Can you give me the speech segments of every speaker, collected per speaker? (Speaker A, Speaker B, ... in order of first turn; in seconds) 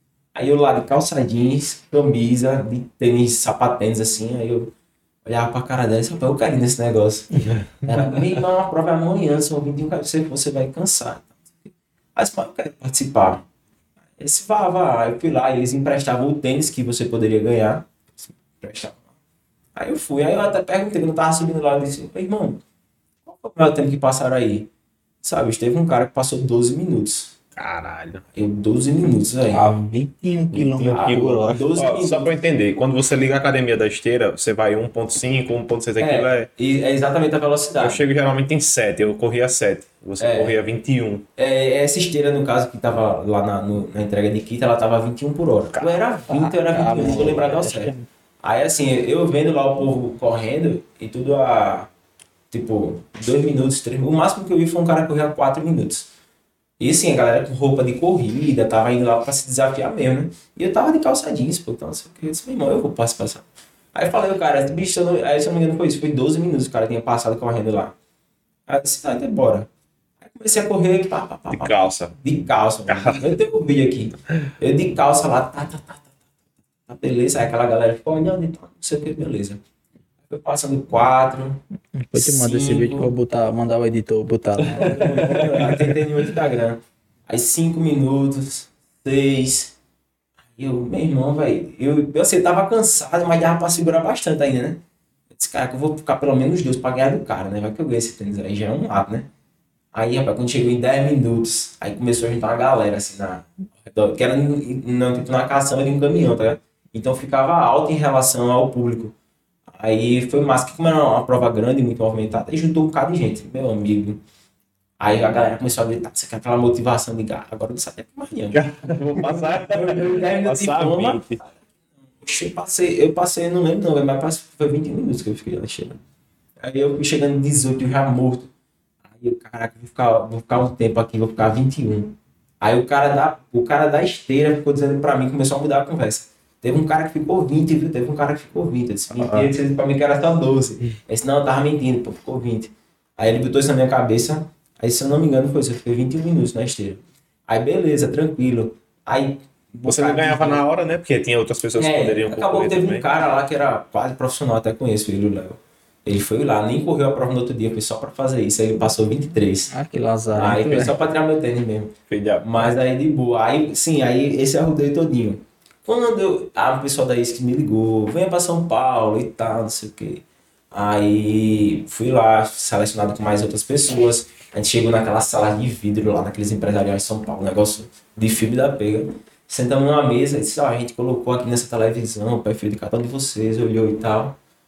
Speaker A: 0.3-4.7, 5.2-13.4, 14.2-19.0, 19.8-22.6, 23.2-24.7, 25.2-27.3, 28.4-29.6, 30.9-32.4, 36.0-38.0, 40.2-40.6, 41.4-51.9, 52.5-56.1, 56.8-68.0, 68.7-69.7, 70.2-76.1, 76.9-79.6, 80.3-81.6, 82.1-83.1, 84.7-89.8, 90.6-99.3, 99.9-109.1, 109.7-114.2, 115.0-121.5, 122.2-126.0, 126.6-128.5, 129.1-150.6, 151.8-159.7, 160.3-184.4
Speaker B: 7.5-8.0, 27.6-28.2, 30.6-36.5, 37.8-41.3, 45.8-46.0, 71.5-72.2, 72.9-73.3, 84.7-86.0, 118.5-121.4, 149.8-153.1, 162.1-162.7
Speaker C: 29.5-31.7, 46.3-48.1, 81.9-85.6, 159.7-160.9